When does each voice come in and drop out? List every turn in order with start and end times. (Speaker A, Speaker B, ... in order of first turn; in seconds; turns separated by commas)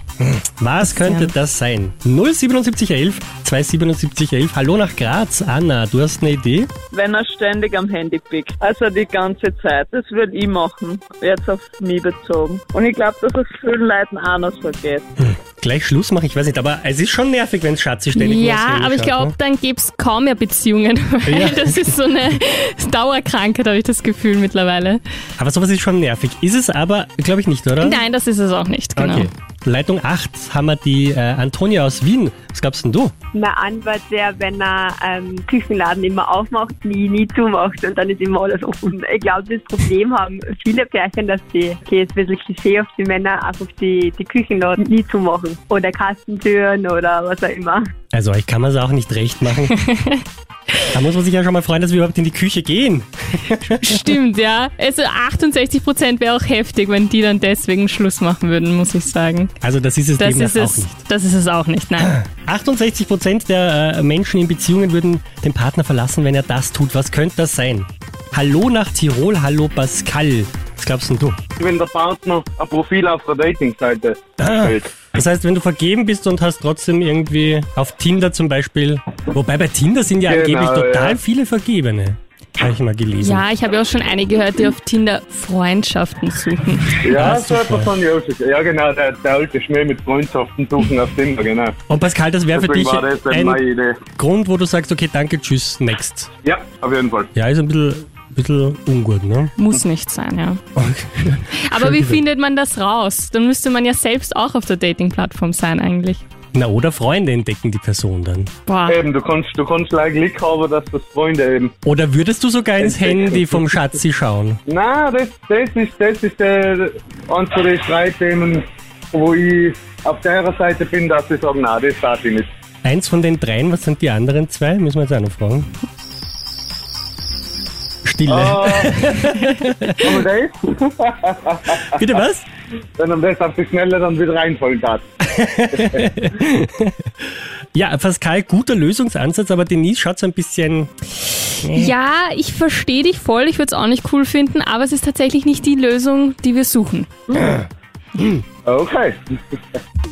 Speaker A: 0.2-6.7, Speaker B: 0.8-1.3, Speaker C: 6.9-15.1, Speaker A: 15.2-19.3, Speaker B: 18.1-25.0, Speaker A: 21.3-21.9, Speaker A: 25.4-28.0, Speaker B: 27.8-29.3, Speaker A: 29.0-33.1, Speaker D: 33.3-47.9, Speaker A: 48.1-49.8, Speaker B: 49.7-50.2, Speaker A: 50.9-54.0, Speaker B: 53.8-59.5, Speaker A: 59.6-61.0, Speaker B: 60.2-62.2, Speaker A: 62.0-71.4, Speaker E: 71.6-74.9, Speaker A: 74.4-83.5, Speaker E: 80.3-81.2, Speaker B: 83.2-87.1, Speaker E: 87.0-91.7, Speaker A: 87.1-87.9, Speaker A: 91.9-93.6, Speaker E: 92.5-94.0, Speaker A: 94.2-96.3, Speaker E: 96.4-97.3, Speaker A: 97.3-99.5, Speaker B: 99.6-100.6, Speaker A: 100.8-102.2, Speaker B: 101.5-106.2, Speaker A: 106.5-108.5, Speaker B: 108.7-109.0, Speaker E: 108.9-111.7, Speaker A: 111.8-114.6, Speaker E: 112.8-113.6, Speaker E: 114.7-122.5, Speaker A: 122.8-125.7, Speaker A: 128.1-130.0, Speaker E: 128.3-128.9, Speaker E: 130.0-131.8, Speaker A: 131.8-132.5, Speaker E: 133.0-135.0, Speaker A: 135.4-136.9, Speaker E: 135.7-136.0, Speaker A: 137.8-140.9, Speaker A: 141.6-141.9, Speaker B: 141.7-147.1, Speaker E: 148.7-149.2